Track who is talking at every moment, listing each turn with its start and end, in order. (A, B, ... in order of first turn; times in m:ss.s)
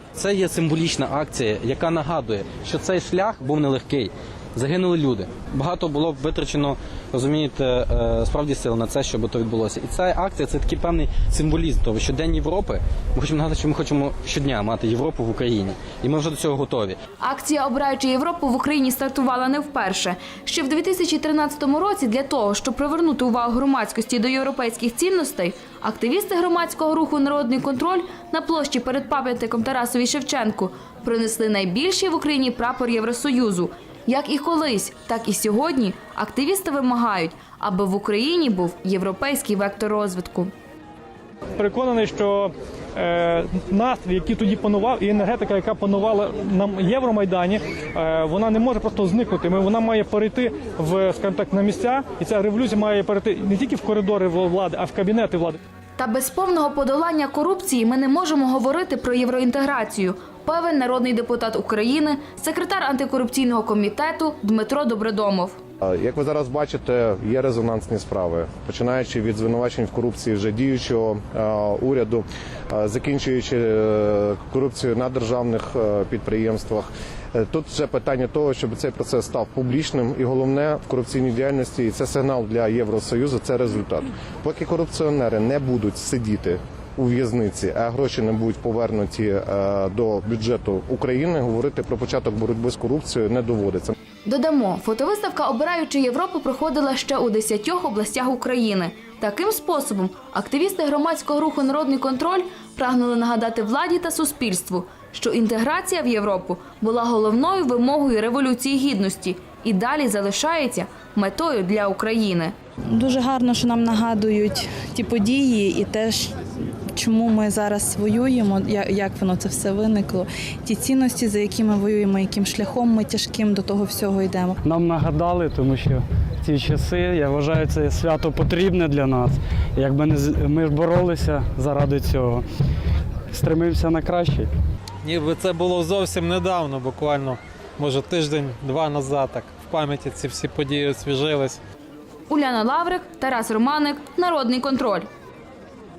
0:00.2-0:17.0 A
0:17.2-0:40.5 B
0:41.6-0:55.6 C
0:56.0-1:05.6 B
1:06.0-1:33.9 D
1:34.3-1:52.5 B
1:52.9-1:56.4 E
1:56.9-2:04.6 E
2:04.6-2:12.4 F
2:13.3-2:14.5 F
2:15.0-2:21.6 G
2:22.3-2:25.1 B